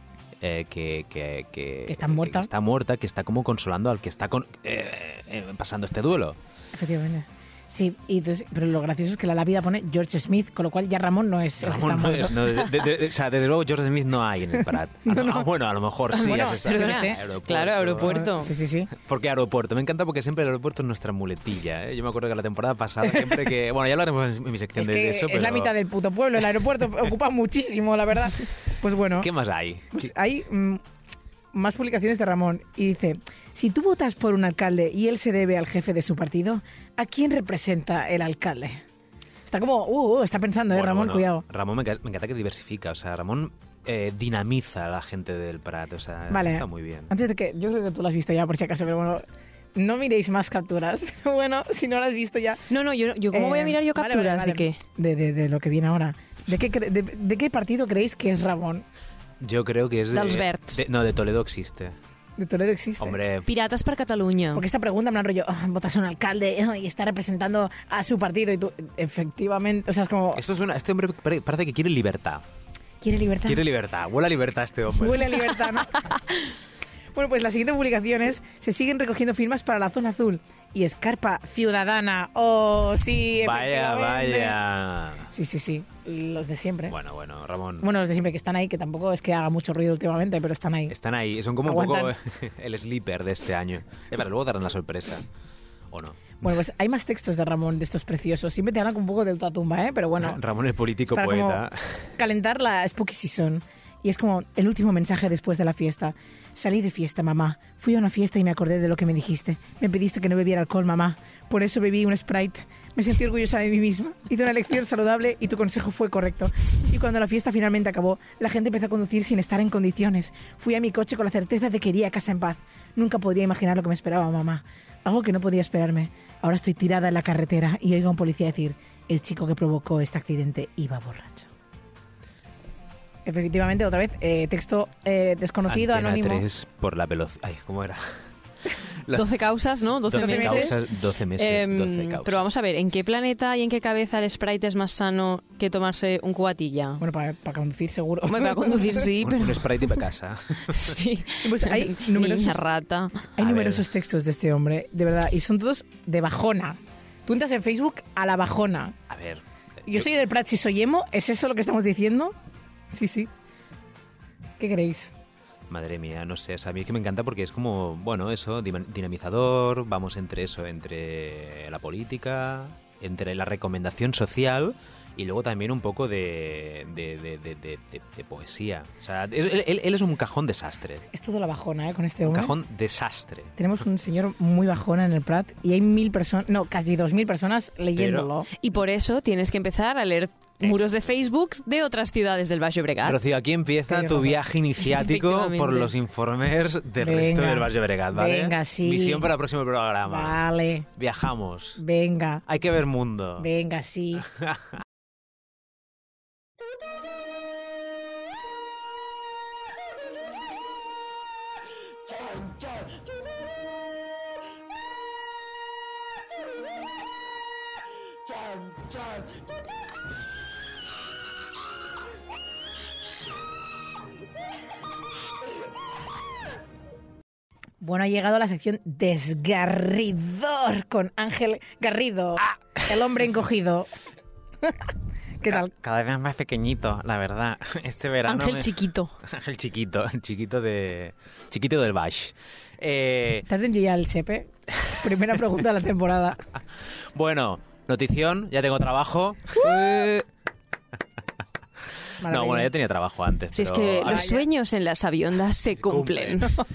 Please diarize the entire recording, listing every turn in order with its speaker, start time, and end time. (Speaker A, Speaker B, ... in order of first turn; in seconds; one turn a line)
Speaker A: 0.4-6.4
Speaker B: 1.9-2.5
Speaker B: 6.7-12.8
Speaker A: 11.6-18.2
Speaker B: 15.0-15.5
Speaker B: 16.1-17.2
Speaker C: 16.3-18.5
Speaker B: 18.0-18.9
Speaker A: 18.9-25.7
Speaker B: 24.8-29.3
Speaker A: 29.2-30.1
Speaker B: 29.9-30.8
Speaker B: 31.5-38.8
Speaker B: 39.5-41.4
Speaker A: 40.7-47.1
Speaker B: 46.3-52.6
Speaker C: 52.7-54.8
Speaker B: 53.3-58.8
Speaker A: 59.4-62.0
Speaker C: 60.1-60.8
Speaker B: 62.4-63.2
Speaker A: 63.0-63.5
Speaker C: 63.5-64.6
Speaker B: 64.5-70.4
Speaker A: 70.3-72.4
Speaker B: 73.0-73.6
Speaker A: 73.4-75.5
Speaker B: 74.9-76.0
Speaker B: 77.1-84.6
Speaker A: 83.3-85.3
Speaker B: 85.3-87.0
Speaker A: 86.9-87.9
Speaker B: 87.8-90.9
Speaker A: 90.9-95.2
Speaker B: 91.6-92.1
Speaker A: 95.9-96.4
Speaker B: 96.4-100.4
Speaker A: 100.2-102.1
Speaker B: 101.1-101.6
Speaker B: 102.2-131.5
Speaker B: 133.2-136.4
Speaker A: 135.7-139.3
Speaker C: 139.1-147.0
Speaker A: 140.1-142.5
Speaker B: 140.1-140.8
Speaker B: 147.0-149.1
Speaker C: 148.3-150.0
Speaker A: 149.2-151.0
Speaker C: 150.7-153.3
Speaker B: 151.4-152.6
Speaker B: 153.3-158.9
Speaker A: 153.4-153.9
Speaker A: 159.1-160.1
Speaker B: 159.8-162.3
Speaker B: 162.9-163.3
Speaker B: 164.6-165.1
Speaker A: 165.7-181.1
Speaker B: 181.1-182.5
Speaker A: 182.2-183.6
Speaker B: 183.6-188.5
Speaker A: 187.9-188.3
Speaker C: 188.6-193.2
Speaker A: 190.6-191.1
Speaker A: 193.0-200.4
Speaker B: 193.9-194.4
Speaker C: 194.9-195.9
Speaker B: 197.0-199.3
Speaker B: 200.1-200.9
Speaker A: 200.9-201.8
Speaker B: 201.8-202.4
Speaker A: 202.4-203.5
Speaker B: 203.4-204.3
Speaker A: 204.3-204.8
Speaker B: 227.8-233.9
Speaker B: 235.4-235.7
Speaker A: 235.5-243.5
Speaker C: 238.2-239.1
Speaker B: 243.5-246.4
Speaker A: 244.8-245.1
Speaker A: 246.8-249.8
Speaker C: 249.6-250.2
Speaker B: 252.2-252.7
Speaker A: 252.2-254.3
Speaker C: 253.5-256.5
Speaker B: 254.1-254.4
Speaker A: 255.7-256.5